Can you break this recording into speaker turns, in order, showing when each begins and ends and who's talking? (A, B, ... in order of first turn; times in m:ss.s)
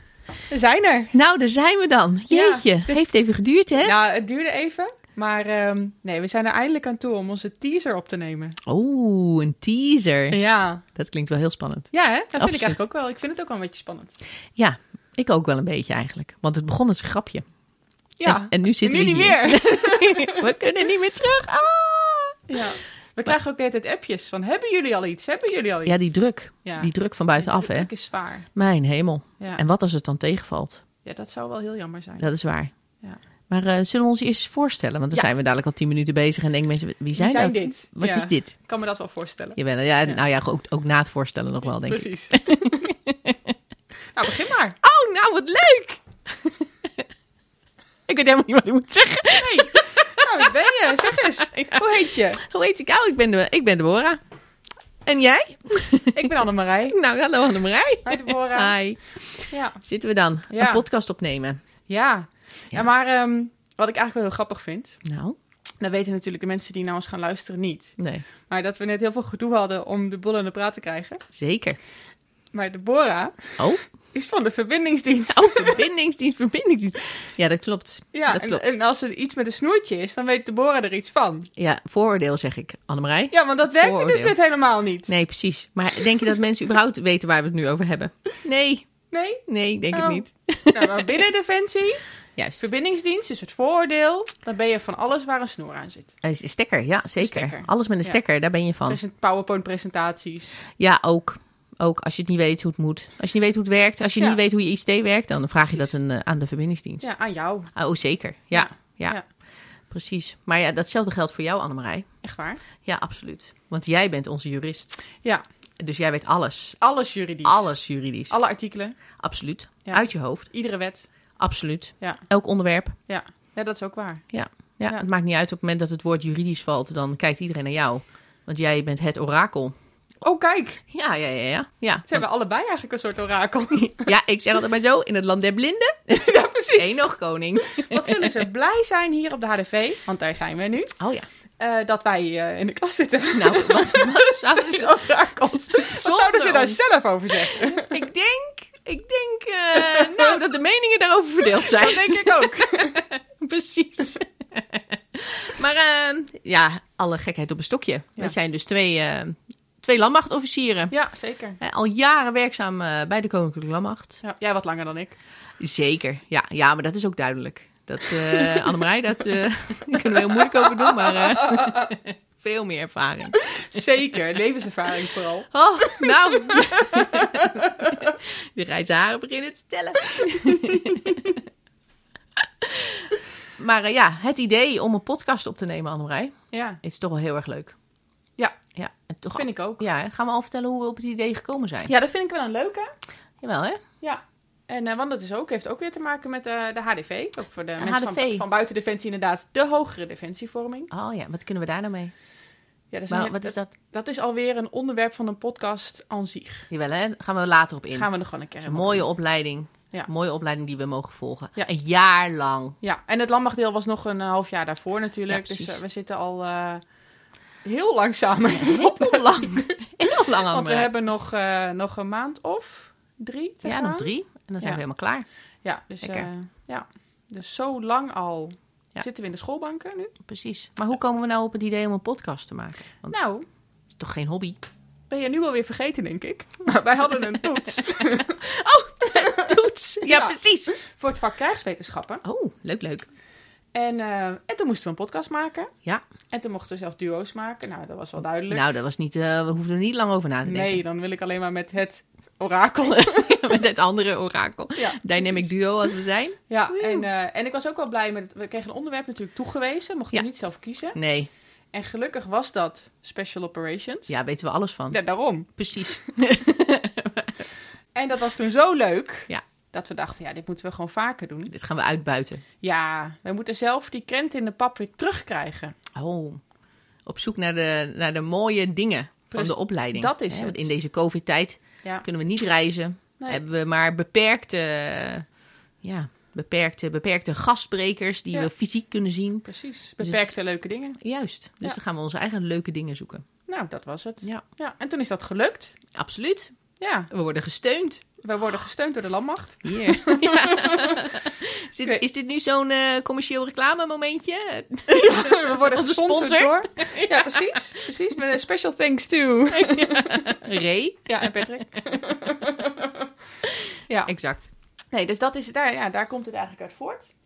0:00.5-0:01.1 A
0:01.1-0:03.9 B
0:02.3-0:03.0 A
0:03.8-0:08.6 A
0:08.7-0:12.8 B
0:10.3-0:10.8 A
0:11.9-0:14.2 A
0:14.6-0:17.5 B
0:18.2-0:20.7 A
0:18.2-0:22.4 B
0:22.5-0:26.1 A
0:25.9-0:27.9 B
0:26.6-0:28.5 A
0:28.5-0:30.8 B
0:31.0-0:32.3 A
0:32.2-0:32.7 B
0:33.5-0:38.6 B
0:37.2-0:40.2 A
0:39.6-0:43.5 B
0:41.8-0:42.9 A
0:44.1-0:44.8 A
0:44.8-0:46.0 B
0:48.1-0:54.2 B
0:49.4-0:52.4 A
0:55.1-0:56.3 B
0:56.1-0:57.0 A
0:56.9-1:01.6 B
0:58.0-0:58.8 A
0:59.5-0:59.8 A
1:00.5-1:00.8 A
1:01.9-1:05.0 A
1:05.0-1:05.4 B
1:05.8-1:11.2 A
1:08.0-1:08.2 B
1:11.3-1:11.8 B
1:12.5-1:13.6 A
1:13.6-1:13.8 B
1:14.1-1:15.8 A
1:15.3-1:18.7 B
1:18.1-1:21.5 A
1:21.6-1:24.4 B
1:23.3-1:25.1 A
1:25.1-1:28.9 B
1:29.1-1:32.0 A
1:29.5-1:31.0 B
1:32.4-1:32.6 B
1:32.6-1:36.2 A
1:36.2-1:39.0 B
1:37.2-1:38.2 A
1:38.9-1:40.6 A
1:40.8-1:47.1 B
1:47.0-1:47.7 A
1:47.7-1:49.2 B
1:48.5-1:49.2 A
1:49.9-1:52.1 B
1:52.2-1:52.6 A
1:52.8-1:54.9 B
1:55.8-1:56.8 B
1:56.8-1:59.0 A
1:57.4-1:58.4 B
1:59.2-2:00.5 B
1:59.9-2:01.1 A
2:01.4-2:03.0 B
2:03.1-2:04.2 A
2:04.3-2:09.7 B
2:10.2-2:10.8 A
2:10.9-2:12.2 B
2:12.1-2:14.1 A
2:13.9-2:18.4 B
2:16.2-2:17.0 A
2:17.7-2:20.9 A
2:21.0-2:21.3 B
2:21.6-2:28.0 A
2:23.3-2:25.0 B
2:25.7-2:26.8 B
2:27.3-2:41.0 B
2:29.8-2:30.4 A
2:31.6-2:33.0 A
2:40.9-2:41.6 A
2:41.6-2:44.2 B
2:44.2-2:45.2 A
2:45.6-2:53.8 B
2:50.4-2:51.9 A
2:53.6-2:57.9 A
2:55.5-3:01.4 B
3:02.6-3:07.8 B
3:06.5-3:06.8 A
3:08.8-3:11.9 B
3:09.3-3:09.8 A
3:11.9-3:12.9 A
3:13.4-3:13.8 B
3:14.0-3:20.9 A
3:17.8-3:18.4 B
3:20.9-3:22.1 B
3:22.9-3:26.7 A
3:23.1-3:23.7 B
3:26.7-3:28.1 B
3:27.9-3:29.1 A
3:28.6-3:32.8 B
3:32.8-3:36.8 A
3:35.3-3:35.8 B
3:37.6-3:39.7 A
3:38.5-3:40.9 B
3:40.5-3:44.8 A
3:43.6-3:45.3 B
3:45.6-3:50.1 A
3:46.0-3:46.3 B
3:50.2-3:53.2 B
3:53.1-3:53.4 A
3:54.0-3:54.6 B
3:55.1-3:58.4 A
3:58.0-4:00.8 B
3:59.2-4:02.2 A
4:02.2-4:03.1 B
4:03.7-4:05.7 A
4:06.3-4:08.6 A
4:08.5-4:10.8 B
4:10.4-4:13.4 A
4:12.9-4:17.0 B
4:14.8-4:15.5 A
4:16.5-4:21.0 A
4:20.9-4:21.3 B
4:21.7-4:24.1 A
4:24.1-4:25.0 B
4:24.9-4:26.0 A
4:25.6-4:27.3 B
4:28.0-4:31.5 A
4:31.5-4:32.4 B
4:32.6-4:35.7 A
4:36.0-4:36.4 B
4:37.0-4:45.3 B
4:39.3-4:40.7 A
4:45.8-4:49.5 B
4:49.4-4:51.0 A
4:50.0-4:50.4 B
4:51.0-4:53.2 B
4:53.5-4:55.8 A
4:55.9-4:56.6 B
4:56.8-4:57.1 A
4:57.1-4:58.1 B
4:58.2-5:01.1 A
4:59.6-5:07.4 B
5:04.9-5:10.4 A
5:09.6-5:11.5 B
5:11.1-5:13.0 A
5:14.1-5:14.5 B
5:14.9-5:17.1 A